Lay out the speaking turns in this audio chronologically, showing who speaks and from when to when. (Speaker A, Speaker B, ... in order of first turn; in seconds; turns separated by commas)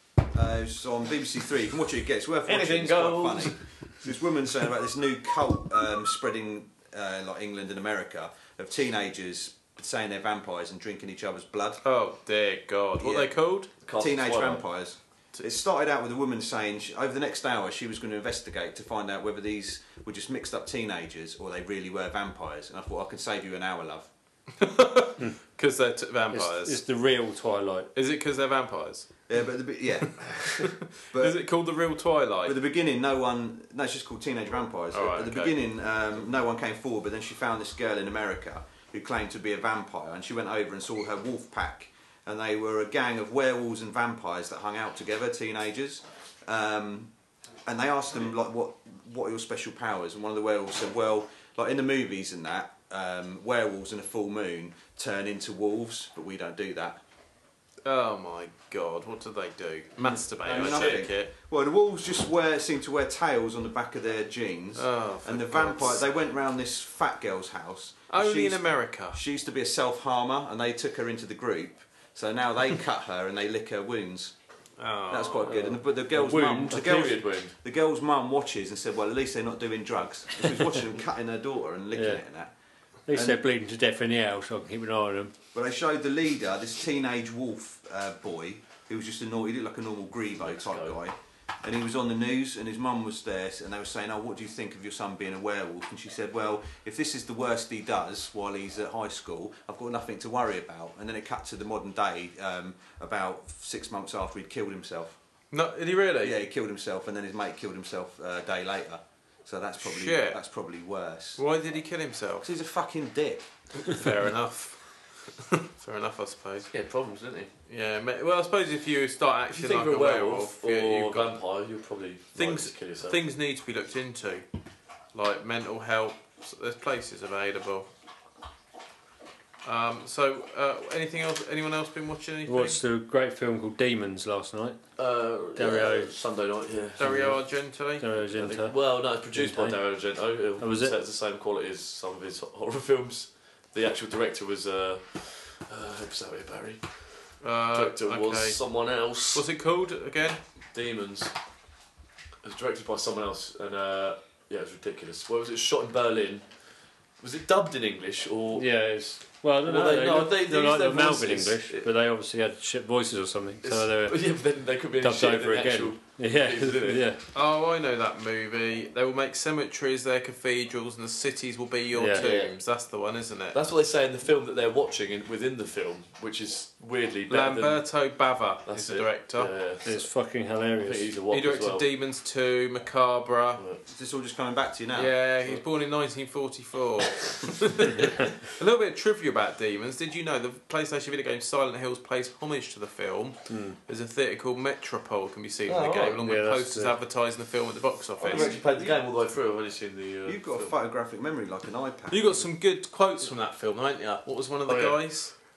Speaker A: 0.3-11.8, Speaker B: 2.5-3.6, Speaker C: 11.8-13.7, Speaker A: 13.0-13.3, Speaker B: 13.8-14.6, Speaker A: 14.0-24.1, Speaker C: 24.6-26.8, Speaker D: 26.3-27.9, Speaker C: 27.9-29.1, Speaker A: 29.3-31.4, Speaker C: 30.6-32.6, Speaker A: 32.5-47.1, Speaker C: 34.9-35.6, Speaker A: 47.7-57.0, Speaker C: 57.9-61.3, Speaker A: 60.0-74.3, Speaker B: 60.4-61.1, Speaker C: 64.8-66.1, Speaker C: 68.1-69.2, Speaker C: 74.8-75.5, Speaker A: 75.1-82.5, Speaker B: 75.4-77.6, Speaker D: 81.9-82.2, Speaker D: 83.1-85.4, Speaker A: 83.1-83.4, Speaker A: 85.5-105.2, Speaker B: 90.4-91.0, Speaker C: 105.5-106.4, Speaker A: 106.2-111.4, Speaker C: 109.8-110.4, Speaker C: 111.4-112.5, Speaker A: 112.4-113.5, Speaker C: 113.8-116.7, Speaker B: 116.7-117.5, Speaker C: 117.7-121.3, Speaker B: 119.5-123.2, Speaker C: 122.4-124.5, Speaker C: 125.1-127.9, Speaker C: 129.6-132.8, Speaker D: 132.5-134.8, Speaker B: 135.0-137.1, Speaker D: 135.6-136.1, Speaker C: 137.0-138.1, Speaker D: 137.0-137.4, Speaker D: 138.0-139.8, Speaker B: 138.4-149.4, Speaker D: 140.6-141.0, Speaker C: 147.4-148.6, Speaker C: 149.3-150.4, Speaker B: 150.7-151.3, Speaker B: 152.4-156.4, Speaker B: 157.2-158.7, Speaker D: 158.6-164.2, Speaker B: 159.7-161.9, Speaker B: 163.6-167.1, Speaker D: 165.0-167.2, Speaker C: 167.3-173.6, Speaker D: 171.9-172.3, Speaker B: 172.2-172.5, Speaker B: 173.5-177.8, Speaker C: 177.3-179.5, Speaker B: 178.7-180.0, Speaker D: 179.8-181.1, Speaker B: 180.8-181.9, Speaker C: 181.3-183.6, Speaker B: 183.6-183.8, Speaker A: 183.9-185.1, Speaker C: 184.9-198.6, Speaker D: 193.5-193.8, Speaker B: 195.7-196.2, Speaker D: 196.2-196.9, Speaker B: 198.2-200.8, Speaker A: 198.3-199.0, Speaker A: 200.3-202.4, Speaker C: 202.1-205.3, Speaker B: 204.7-205.0